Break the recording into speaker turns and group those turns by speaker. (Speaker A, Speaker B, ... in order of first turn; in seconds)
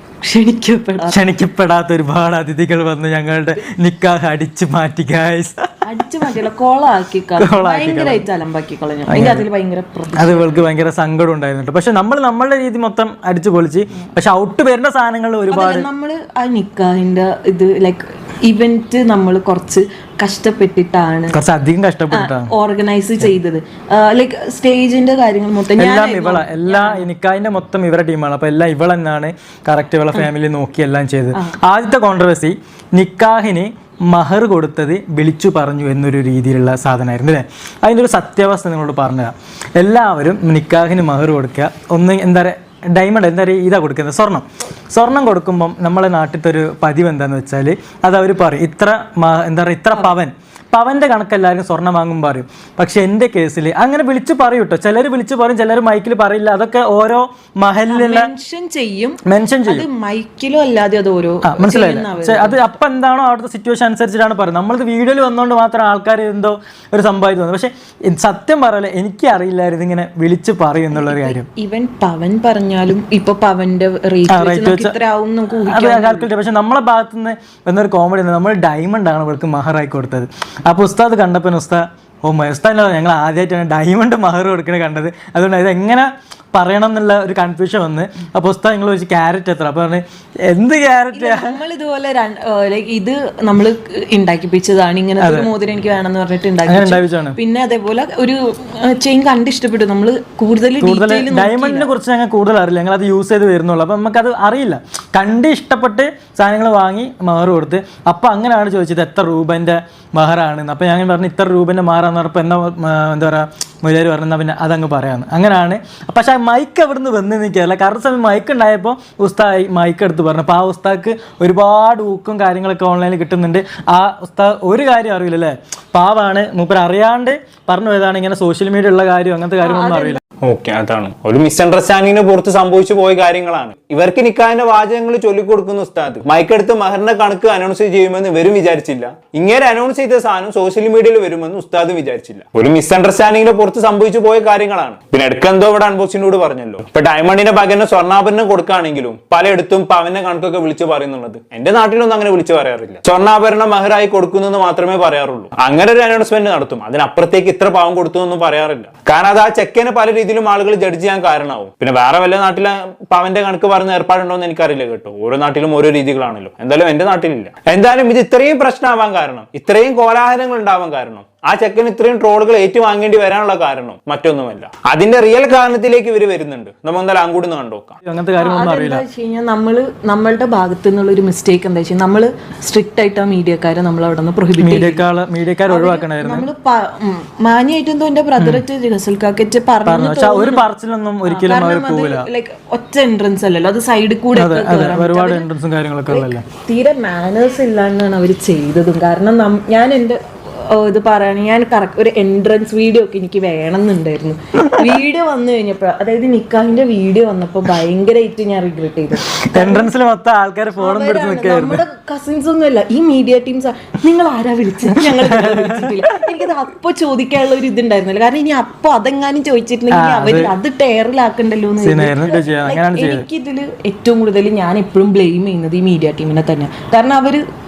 Speaker A: 0.2-1.2, 5.8-10.6, 15.5-21.4, 22.1-27.1, 57.9-62.6, 70.9-76.3, 91.1-101.9, 129.6-130.2, 178.3-185.0, 185.7-190.7, 191.2-195.5, 196.1-209.9, 210.8-227.4
Speaker B: 1.0-5.7, 7.4-8.2, 9.1-9.5, 10.2-15.9, 21.3-22.5, 25.8-58.3, 59.3-59.9, 61.4-71.5, 74.3-75.0, 75.7-91.6, 95.2-95.5, 96.7-97.4, 100.8-130.2, 178.0-179.1, 184.6-186.5, 188.4-188.6, 189.9-192.3, 194.3-196.4, 209.4-211.8, 215.1-216.0, 219.9-220.5, 221.8-223.3
Speaker C: 130.4-178.0